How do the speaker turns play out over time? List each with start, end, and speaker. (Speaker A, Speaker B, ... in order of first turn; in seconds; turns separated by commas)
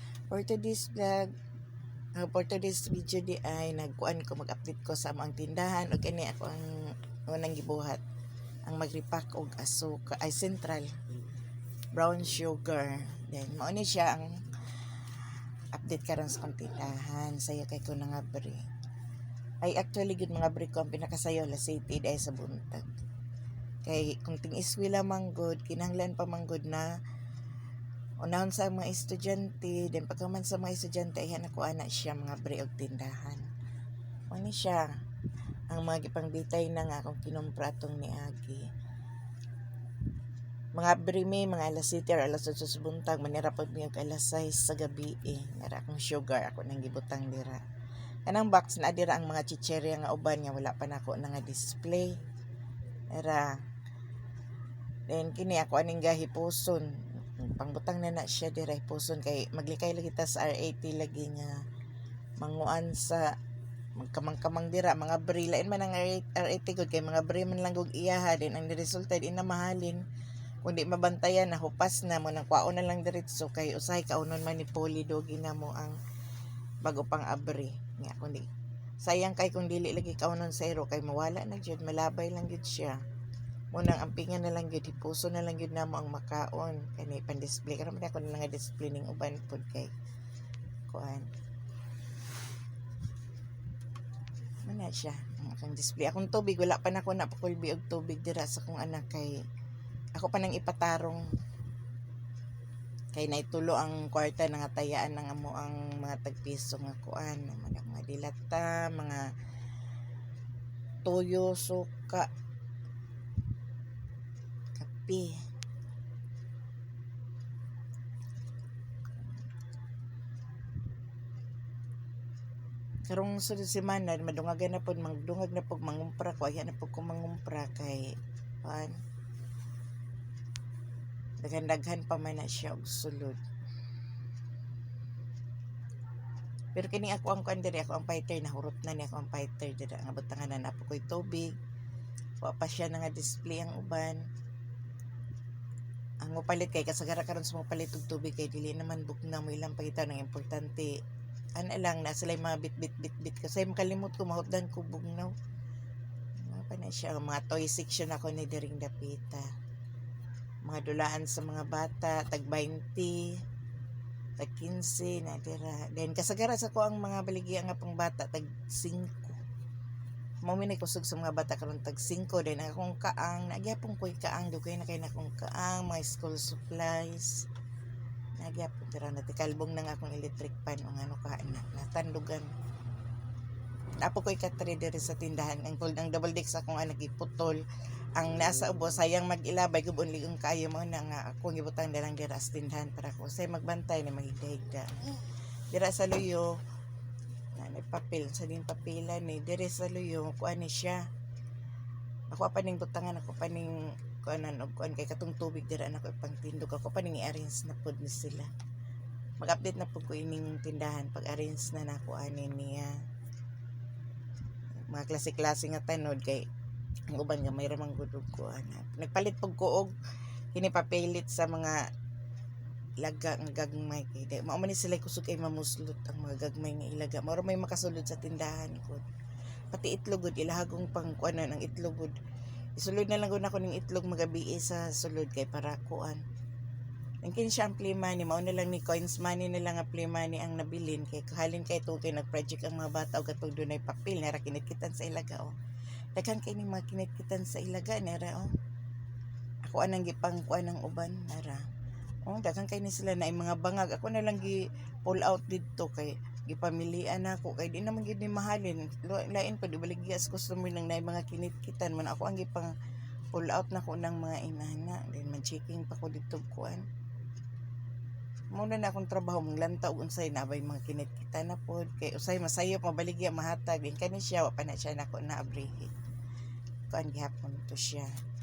Speaker A: 0.3-1.3, Speaker A: 2.2-8.0, Speaker A: 8.7-11.0, Speaker A: 11.9-14.4, Speaker A: 15.7-18.6, Speaker A: 19.6-22.9, Speaker A: 23.9-26.9, Speaker A: 28.2-33.5, Speaker A: 34.3-34.9, Speaker A: 35.7-38.7, Speaker A: 40.8-47.6, Speaker A: 48.3-52.1, Speaker A: 53.1-53.6, Speaker A: 55.1-61.6, Speaker A: 62.4-63.3, Speaker A: 64.0-70.0, Speaker A: 70.6-76.0, Speaker A: 76.8-78.5, Speaker A: 79.0-83.0, Speaker A: 83.7-89.9, Speaker A: 90.9-91.3, Speaker A: 94.7-99.3, Speaker A: 100.2-101.2, Speaker A: 103.1-109.3, Speaker A: 111.0-112.3, Speaker A: 114.8-115.4, Speaker A: 123.1-129.0, Speaker A: 131.4-133.4, Speaker A: 136.8-141.6, Speaker A: 142.4-144.2, Speaker A: 146.2-151.0, Speaker A: 151.6-155.3, Speaker A: 156.4-159.5, Speaker A: 160.7-163.4, Speaker A: 164.4-169.4, Speaker A: 170.4-177.5, Speaker A: 178.4-182.5, Speaker A: 184.0-187.6, Speaker A: 188.2-195.2, Speaker A: 195.7-196.6, Speaker A: 197.6-201.0, Speaker A: 202.3-208.5, Speaker A: 209.4-212.9, Speaker A: 214.9-216.4, Speaker A: 217.1-219.9, Speaker A: 220.5-221.8, Speaker A: 223.0-229.0, Speaker A: 229.7-232.2, Speaker A: 232.8-236.2, Speaker A: 237.2-245.6, Speaker A: 246.2-248.5, Speaker A: 249.7-251.6, Speaker A: 252.2-262.7, Speaker A: 263.3-266.9, Speaker A: 268.5-275.9, Speaker A: 276.9-278.1